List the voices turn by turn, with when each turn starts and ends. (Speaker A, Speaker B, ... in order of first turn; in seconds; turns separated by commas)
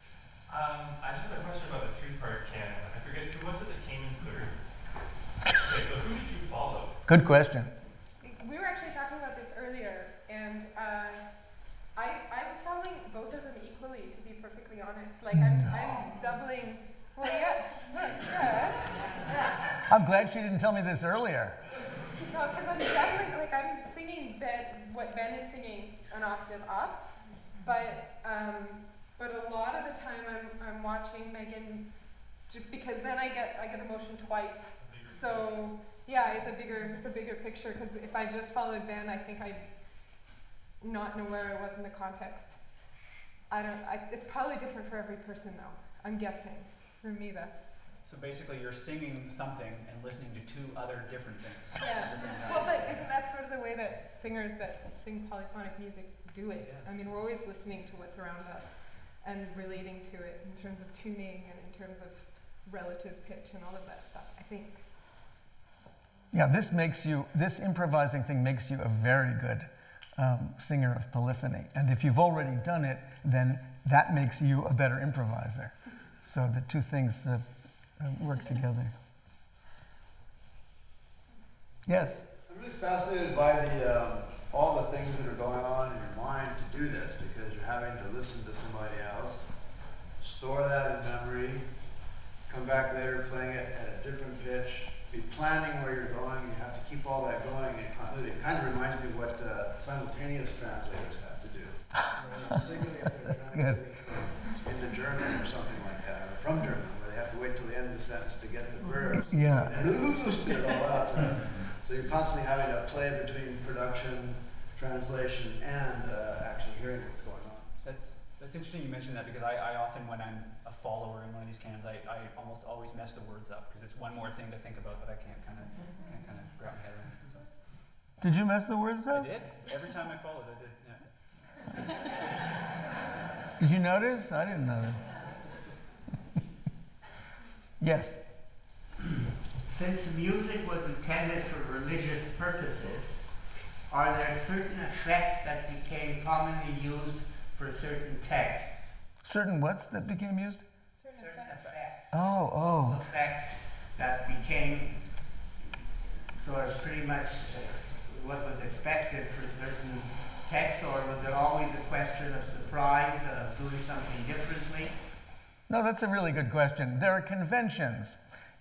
Speaker A: 0.5-7.0, Speaker B: 7.1-7.7, Speaker C: 8.2-19.6, Speaker B: 15.3-16.1, Speaker B: 19.9-21.6, Speaker C: 22.1-43.0, Speaker A: 34.8-35.4, Speaker C: 43.5-48.0, Speaker D: 48.0-53.0, Speaker C: 51.8-65.3, Speaker D: 56.6-57.0, Speaker B: 66.3-79.0, Speaker B: 81.9-82.3, Speaker E: 82.5-91.7, Speaker E: 92.5-117.8, Speaker B: 102.2-102.5, Speaker B: 103.3-103.8, Speaker B: 109.3-109.7, Speaker D: 117.8-127.6, Speaker B: 128.2-129.3, Speaker D: 129.1-132.0, Speaker B: 133.6-135.3, Speaker B: 137.8-138.6, Speaker F: 139.6-149.0, Speaker B: 149.2-150.7, Speaker C: 150.9-151.9, Speaker F: 151.1-155.6, Speaker B: 152.1-153.0, Speaker F: 156.2-165.2, Speaker B: 165.7-168.2